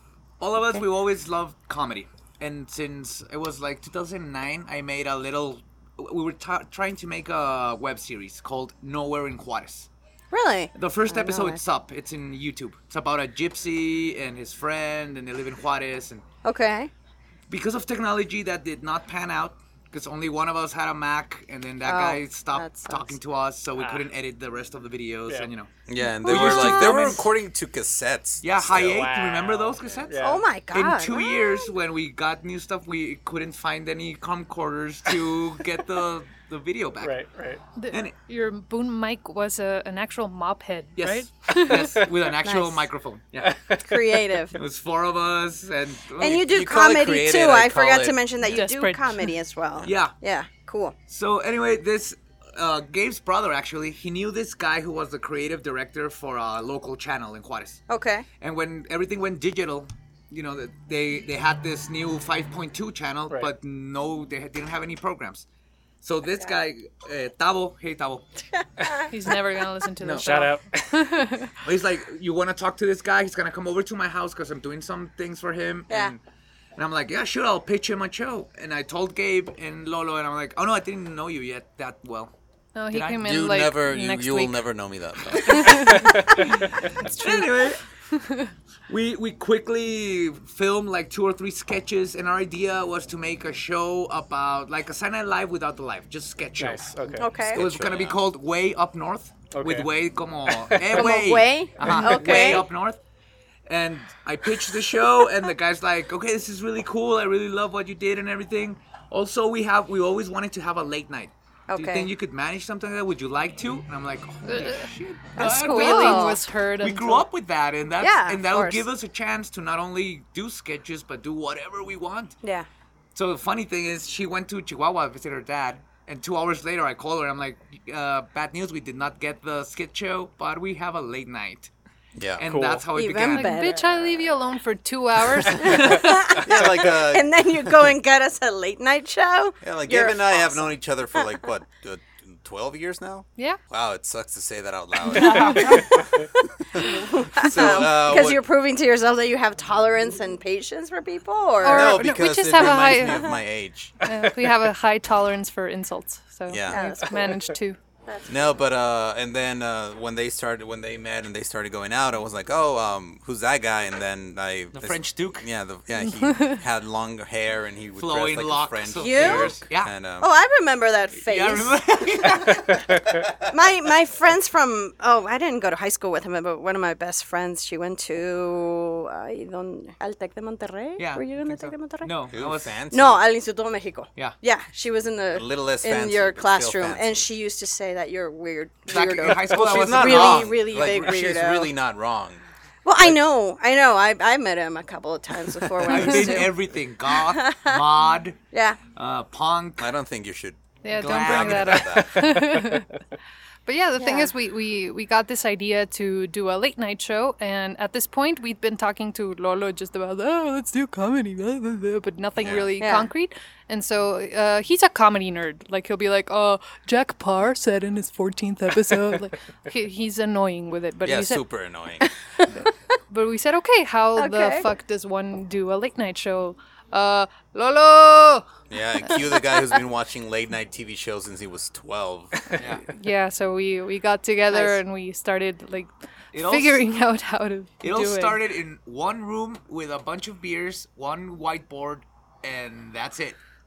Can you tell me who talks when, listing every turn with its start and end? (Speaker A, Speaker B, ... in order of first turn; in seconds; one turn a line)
Speaker A: 0.4-9.9
Speaker B: 10.3-11.6
Speaker A: 10.8-16.2
Speaker B: 16.4-16.9
Speaker A: 17.5-25.7
Speaker B: 21.8-23.1
Speaker C: 23.8-24.1
Speaker D: 25.9-29.1
Speaker B: 26.2-27.2
Speaker A: 26.2-27.2
Speaker A: 28.4-30.2
Speaker C: 28.8-30.4
Speaker B: 30.2-31.7
Speaker A: 30.7-37.1
Speaker C: 37.0-37.6
Speaker E: 37.8-41.8
Speaker A: 37.9-38.1
Speaker A: 41.0-43.6
Speaker B: 42.4-42.9
Speaker C: 43.4-43.8
Speaker B: 43.7-44.5
Speaker A: 44.5-46.4
Speaker B: 46.2-50.9
Speaker D: 46.4-48.2
Speaker E: 48.4-49.3
Speaker A: 49.8-50.1
Speaker A: 51.1-57.8
Speaker B: 57.9-58.2
Speaker A: 58.4-65.4
Speaker A: 66.0-68.2
Speaker B: 68.8-69.0
Speaker E: 69.1-71.6
Speaker A: 70.0-70.5
Speaker C: 70.2-70.9
Speaker A: 71.6-76.2
Speaker B: 75.9-76.1
Speaker A: 76.8-82.3
Speaker E: 82.7-84.6
Speaker A: 82.9-83.2
Speaker D: 83.2-85.9
Speaker A: 85.2-87.8
Speaker E: 85.5-86.2
Speaker E: 87.0-87.6
Speaker E: 88.1-88.5
Speaker A: 88.9-103.0
Speaker C: 96.6-97.3
Speaker B: 97.2-97.6
Speaker D: 97.4-98.2
Speaker C: 99.5-99.9
Speaker C: 100.5-100.8
Speaker B: 100.9-102.7
Speaker C: 101.8-102.6
Speaker A: 103.7-122.3
Speaker B: 111.7-112.1
Speaker E: 114.4-114.9
Speaker B: 115.4-116.4
Speaker E: 115.4-117.3
Speaker B: 118.0-118.8
Speaker A: 123.1-131.7
Speaker D: 132.2-132.5
Speaker A: 132.4-133.6
Speaker C: 132.4-132.8
Speaker B: 132.9-134.2
Speaker E: 133.3-136.4
Speaker B: 135.5-141.4
Speaker D: 136.4-137.7
Speaker D: 139.6-146.0
Speaker A: 145.1-145.8
Speaker D: 146.7-148.4
Speaker B: 146.8-152.1
Speaker E: 151.6-153.3
Speaker D: 151.6-154.0
Speaker B: 152.8-153.4
Speaker E: 154.0-157.8
Speaker C: 154.1-154.5
Speaker D: 156.5-157.0
Speaker B: 156.7-157.3
Speaker C: 157.1-157.4
Speaker B: 158.0-158.6
Speaker D: 158.2-170.3
Speaker A: 164.7-165.5
Speaker E: 166.2-166.6
Speaker A: 168.0-169.9
Speaker B: 168.9-169.6
Speaker B: 170.2-182.1
Speaker A: 171.2-172.6
Speaker A: 181.0-182.8
Speaker D: 182.3-183.2
Speaker B: 182.9-191.7
Speaker D: 185.3-187.3
Speaker A: 188.9-190.8
Speaker D: 189.2-192.4
Speaker B: 192.8-196.6
Speaker A: 195.8-198.4
Speaker B: 197.1-197.8
Speaker B: 198.5-198.8
Speaker A: 198.9-199.9
Speaker D: 199.8-202.3
Speaker E: 200.8-202.9
Speaker A: 200.9-202.0
Speaker C: 202.1-202.8
Speaker E: 203.7-221.5
Speaker B: 204.0-204.3
Speaker D: 212.4-212.7
Speaker B: 212.8-213.1
Speaker D: 221.0-222.1
Speaker E: 223.1-228.4
Speaker B: 224.2-224.7
Speaker D: 228.7-232.5
Speaker E: 229.0-229.8
Speaker A: 232.6-232.8
Speaker E: 232.9-238.4
Speaker B: 234.5-234.8
Speaker A: 236.3-236.8
Speaker A: 237.8-243.4